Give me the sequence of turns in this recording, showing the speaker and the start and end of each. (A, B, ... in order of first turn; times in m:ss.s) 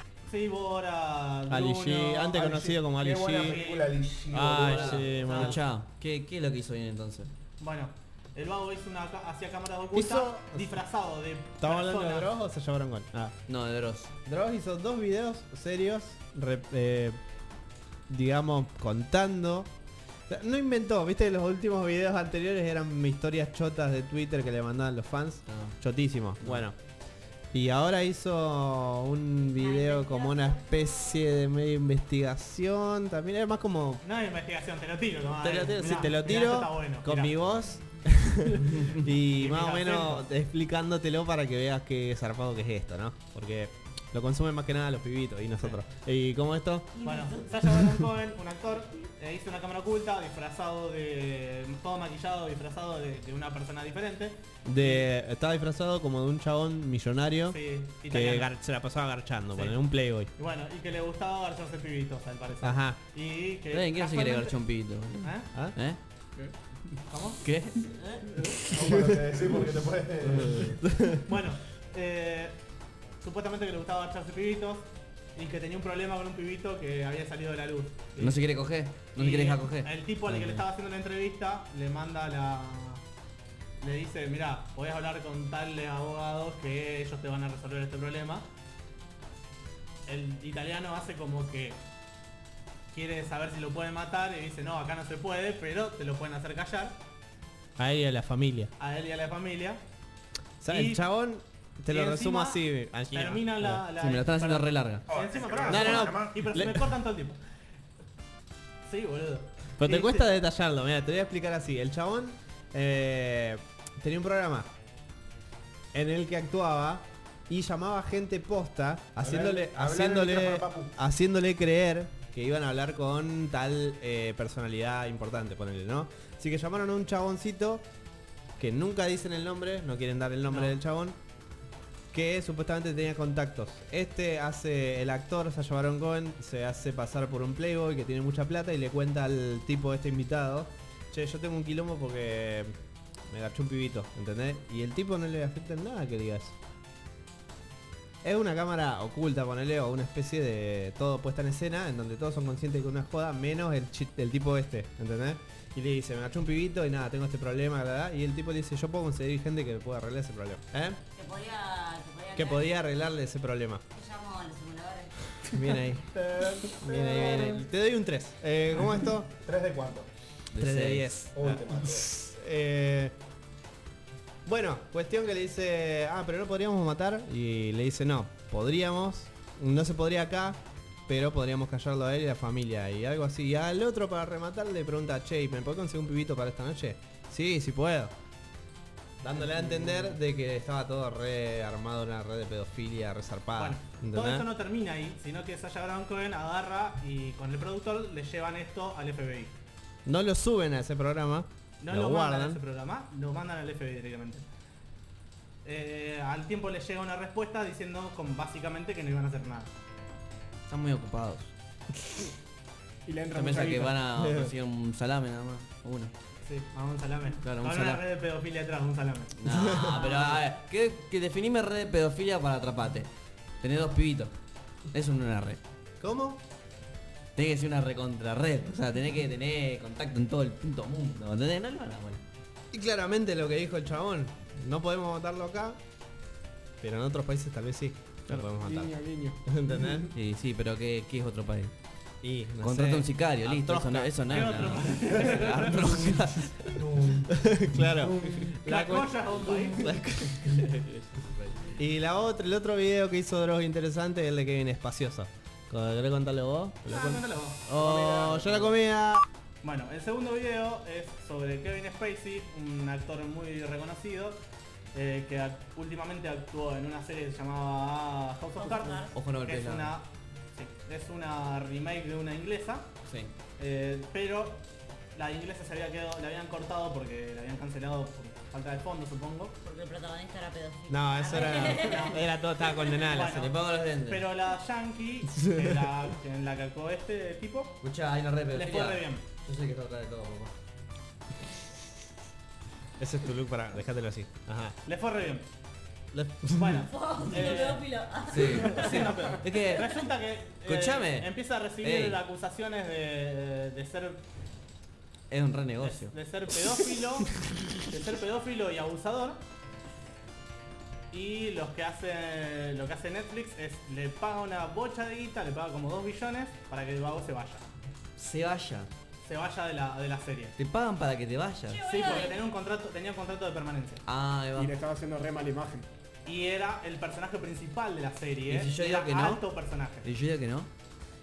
0:00.2-0:02.7 A
0:01.5-0:03.6 B
0:02.4-0:05.2 C
0:03.4-0:04.0 A
0:04.3-0:05.6 B
0:04.5-0:07.3 D
0:04.9-0:05.6 A
0:07.6-0:12.3 A
0:09.9-0:10.7 B
0:11.6-0:13.4 B
0:13.5-0:14.2 D
0:14.2-0:17.2 B
0:18.1-0:19.7 B
0:20.3-0:26.8 B
0:25.5-0:25.8 D
0:27.5-0:34.0 B
0:29.6-0:31.2 E
0:34.0-0:37.4 A
0:35.4-0:47.0 B
0:38.8-0:40.3 A
0:47.0-0:47.6 E
0:47.0-0:55.1 A
0:54.6-1:00.3 B
0:57.5-0:58.5 A
0:59.5-0:59.8 A
1:00.4-1:04.6 A
1:02.6-1:03.0 B
1:03.7-1:06.0 D
1:05.2-1:05.5 A
1:07.1-1:08.3 A
1:07.4-1:08.6 D
1:08.7-1:10.8 C
1:08.8-1:09.2 B
1:10.2-1:10.7 D
1:10.4-1:11.2 B
1:11.2-1:12.6 A
1:13.2-1:18.4 A
1:18.2-1:20.6 D
1:19.2-1:23.0 A
1:23.8-1:28.4 A
1:30.0-1:31.8 A
1:32.9-1:37.0 A
1:37.8-1:38.7 B
1:38.8-1:39.8 A
1:40.6-1:43.8 B
1:40.7-1:41.0 A
1:41.9-1:47.4 A
1:44.0-1:45.1 D
1:45.1-1:46.4 C
1:45.6-1:46.9 B
1:48.9-1:50.2 A
1:49.8-1:54.7 B
1:55.9-2:07.8 B
1:59.2-2:00.9 C
2:08.6-2:11.2 B
2:10.5-2:10.7 A
2:12.1-2:22.7 B
2:23.3-2:26.6 B
2:28.2-2:41.0 B
2:41.1-2:42.7 E
2:42.4-2:43.8 B
2:43.9-2:45.1 E
2:45.4-2:46.1 B
2:46.1-2:47.6 C
2:46.7-2:49.3 B
2:49.4-2:50.1 C
2:50.5-2:51.1 D
2:50.6-2:53.1 B
2:51.4-2:52.1 C
2:54.4-3:08.1 B
3:09.2-3:14.5 B
3:13.6-3:19.5 A
3:20.0-3:22.6 B
3:21.8-3:24.4 A
3:25.6-3:29.7 A
3:30.7-3:31.5 D
3:33.0-3:34.0 F
3:33.3-3:36.1 D
3:34.1-3:34.5 B
3:36.4-3:40.2 A
3:37.4-3:38.0 D
3:39.4-3:43.1 D
3:39.5-3:40.0 B
3:43.6-3:44.3 D
3:44.9-3:45.6 D
3:46.0-3:46.4 B
3:47.4-3:52.2 D
3:52.7-3:55.8 B
3:56.8-3:58.9 B
3:58.6-4:00.0 F
3:59.4-4:00.1 B
4:00.1-4:01.7 D
4:02.2-4:04.8 B
4:02.6-4:06.8 D
4:04.3-4:06.0 A
4:07.2-4:10.7 B
4:08.0-4:08.5 F
4:08.6-4:09.9 A
4:10.2-4:11.8 D
4:11.8-4:19.2 B
4:16.9-4:17.9 A
4:17.8-4:18.7 D
4:19.6-4:24.4 A
4:24.9-4:32.9 A
4:28.6-4:29.1 E
4:29.1-4:29.9 D
4:33.0-4:33.3 D
4:33.6-4:34.6 A
4:35.1-4:39.5 A
4:39.6-4:42.2 E
4:40.9-4:43.4 B
4:41.6-4:42.3 A
4:43.0-4:47.8 A
4:43.1-4:44.3 D
4:45.3-4:45.9 B
4:47.8-4:50.5 D
4:48.5-4:49.2 A
4:53.0-4:54.8 B
4:54.9-4:55.4 A
4:56.1-4:56.8 B
4:56.6-4:57.9 A
4:56.7-4:59.1 E
4:58.3-5:00.0 D
4:58.4-5:04.2 A
5:00.6-5:02.2 D
5:05.3-5:06.1 D
5:05.8-5:07.3 A
5:07.9-5:09.4 A
5:11.1-5:17.6 A
5:18.2-5:18.9 D
5:19.2-5:20.6 A
5:20.6-5:21.8 D
5:21.7-5:22.4 E
5:21.8-5:24.0 A
5:24.0-5:24.7 D
5:24.5-5:25.9 F
5:26.2-5:30.1 A
5:28.5-5:29.4 D
5:30.0-5:30.7 D